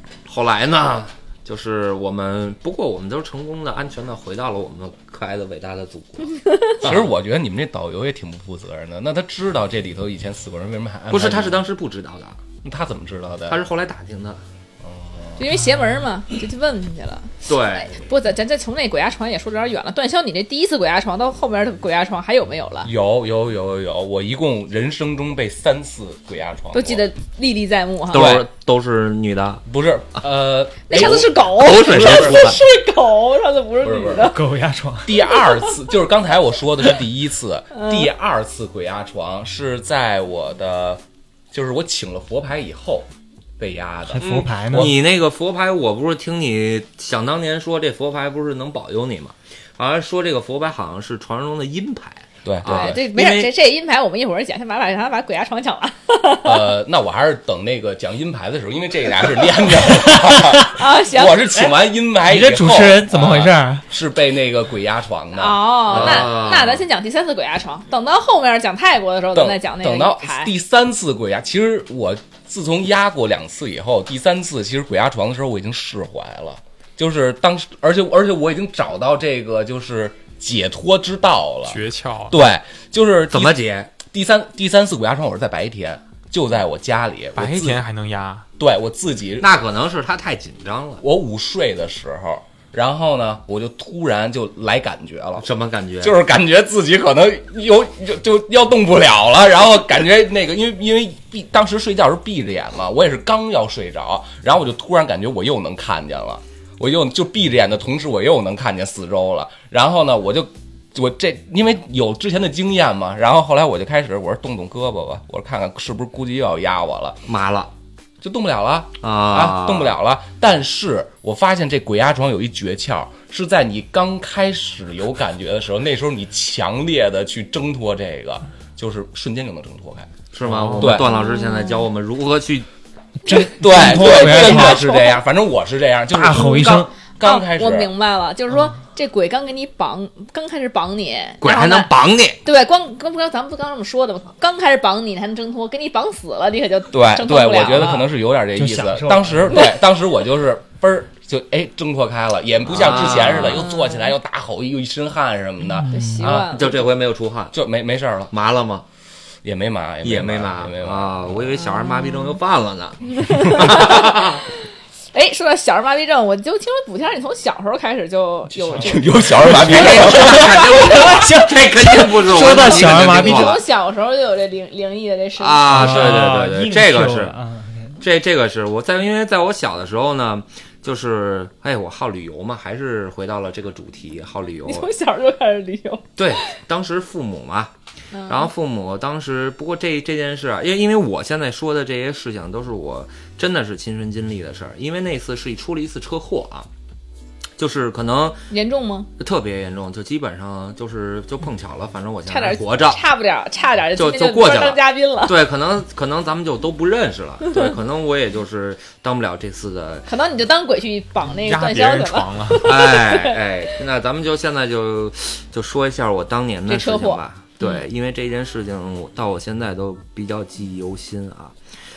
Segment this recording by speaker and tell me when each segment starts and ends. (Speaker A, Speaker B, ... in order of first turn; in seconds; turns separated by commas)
Speaker A: 0.2-7.1, Speaker B: 6.4-6.8, Speaker C: 6.8-11.7, Speaker A: 11.1-12.4, Speaker C: 12.6-13.6, Speaker A: 13.5-14.4, Speaker C: 14.8-15.5, Speaker B: 15.4-22.9, Speaker A: 17.4-18.1, Speaker C: 22.8-27.1, Speaker B: 26.7-28.4, Speaker A: 28.1-29.6, Speaker C: 28.1-28.4, Speaker C: 29.6-32.6, Speaker B: 30.9-34.4, Speaker A: 30.9-32.6, Speaker C: 33.8-34.4, Speaker D: 34.2-35.2, Speaker C: 35.0-45.0, Speaker B: 37.7-38.1, Speaker D: 44.1-45.0, Speaker A: 44.2-53.5, Speaker C: 52.4-53.0, Speaker B: 52.6-56.6, Speaker C: 56.4-66.4, Speaker D: 60.2-60.7, Speaker B: 60.7-61.6, Speaker D: 61.6-63.8, Speaker B: 65.3-70.5, Speaker A: 65.8-66.8, Speaker C: 69.3-87.8, Speaker E: 81.7-82.4, Speaker A: 83.3-83.9, Speaker E: 87.3-88.5, Speaker C: 88.6-89.5, Speaker A: 89.4-91.0, Speaker C: 91.0-95.5, Speaker A: 95.4-96.2, Speaker C: 96.0-117.2, Speaker A: 117.2-117.7, Speaker C: 118.2-130.1, Speaker A: 119.0-120.0, Speaker A: 130.3-132.7, Speaker C: 130.8-131.1, Speaker B: 131.0-131.8, Speaker D: 133.2-134.8, Speaker C: 133.3-137.9, Speaker B: 133.7-135.2, Speaker D: 136.1-136.9, Speaker B: 137.2-141.9, Speaker A: 141.4-142.4, Speaker B: 142.4-148.1, Speaker C: 146.9-155.9, Speaker D: 148.5-149.7, Speaker A: 152.7-153.7, Speaker B: 153.3-154.1, Speaker D: 155.7-156.5, Speaker B: 155.9-156.8, Speaker A: 156.2-157.6, Speaker C: 157.5-158.3, Speaker A: 158.3-158.8, Speaker C: 159.4-161.5, Speaker A: 160.0-164.5, Speaker B: 161.6-162.4, Speaker B: 163.1-164.3, Speaker B: 165.1-171.2, Speaker C: 168.7-170.7, Speaker A: 169.4-173.6, Speaker D: 170.3-173.6, Speaker B: 172.4-176.2, Speaker A: 175.4-177.3, Speaker D: 175.6-178.0, Speaker A: 178.0-184.9, Speaker B: 184.6-186.4, Speaker A: 186.2-187.7, Speaker B: 188.1-188.5, Speaker A: 188.3-196.7, Speaker A: 197.6-198.4, Speaker B: 198.5-199.1, Speaker A: 199.2-203.0, Speaker B: 202.3-205.4, Speaker A: 203.9-210.1, Speaker B: 210.1-213.4, Speaker E: 211.3-212.7, Speaker A: 212.6-221.5, Speaker B: 216.7-217.8